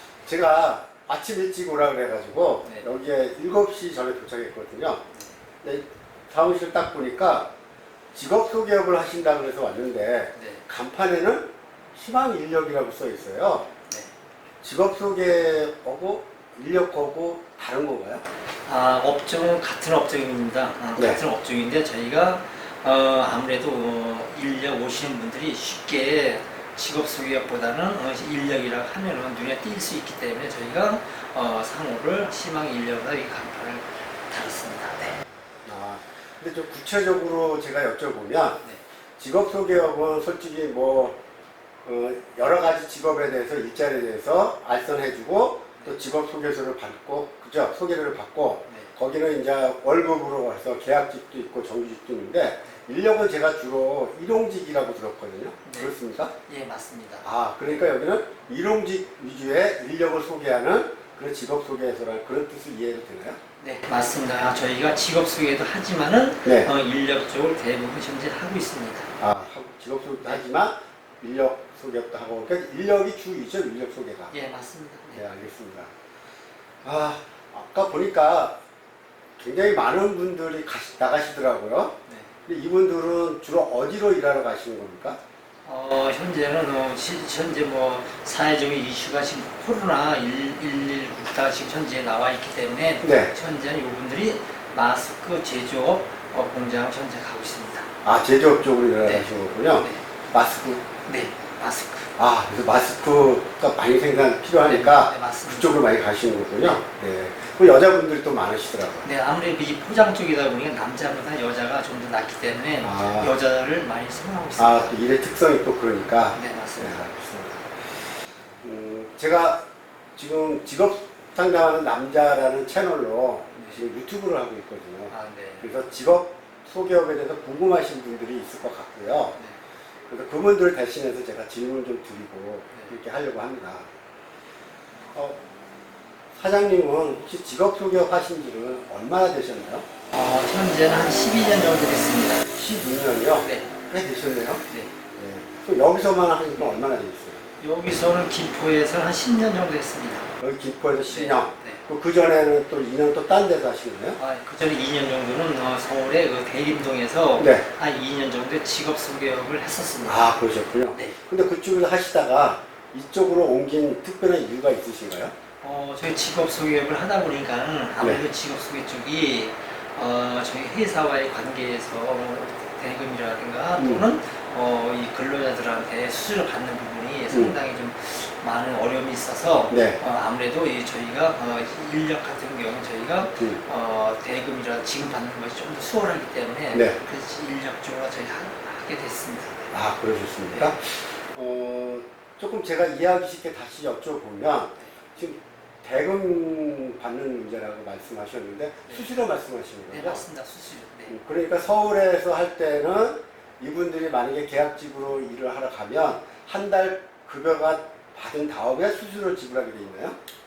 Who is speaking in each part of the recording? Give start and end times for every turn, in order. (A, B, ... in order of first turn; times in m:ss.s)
0:00.2-0:05.0 A
0:05.6-0:07.5 A
0:08.1-0:13.7 A
0:10.4-0:10.6 B
0:14.6-0:18.2 A
0:18.6-0:35.2 B
0:21.0-0:21.2 A
0:35.6-0:38.6 A
0:39.2-0:41.2 A
0:41.8-0:56.3 A
0:55.6-0:55.9 B
0:56.4-0:57.2 B
0:57.2-1:03.4 A
1:03.6-1:09.2 B
1:06.4-1:06.7 A
1:09.2-1:14.3 A
1:14.3-1:15.2 B
1:15.1-1:15.9 A
1:16.8-1:18.6 A
1:19.4-1:21.9 A
1:22.5-1:25.2 A
1:25.6-1:37.9 B
1:33.0-1:33.3 A
1:38.0-1:40.8 A
1:39.0-1:40.0 B
1:41.0-1:42.1 B
1:42.2-1:49.1 A
1:44.6-1:45.8 B
1:49.0-1:55.0 B
1:52.8-1:53.3 A
1:54.6-1:57.7 A
1:56.3-1:57.0 B
1:58.6-1:59.6 A
2:00.2-2:09.4 A
2:03.5-2:03.8 B
2:05.1-2:05.7 B
2:10.1-2:13.9 A
2:15.1-2:15.4 A
2:16.3-2:19.8 A
2:20.1-2:22.4 B
2:22.5-2:27.4 A
2:23.4-2:23.7 B
2:24.7-2:24.9 B
2:27.6-2:30.3 B
2:30.4-2:34.2 A
2:31.1-2:31.8 B
2:34.2-2:40.3 B
2:37.4-2:37.6 A
2:40.0-2:45.3 A
2:45.6-3:09.7 B
2:53.8-2:54.0 A
2:59.7-3:00.0 A
3:06.7-3:07.0 A
3:09.7-3:20.2 A
3:19.9-3:21.2 B
3:21.1-3:30.2 A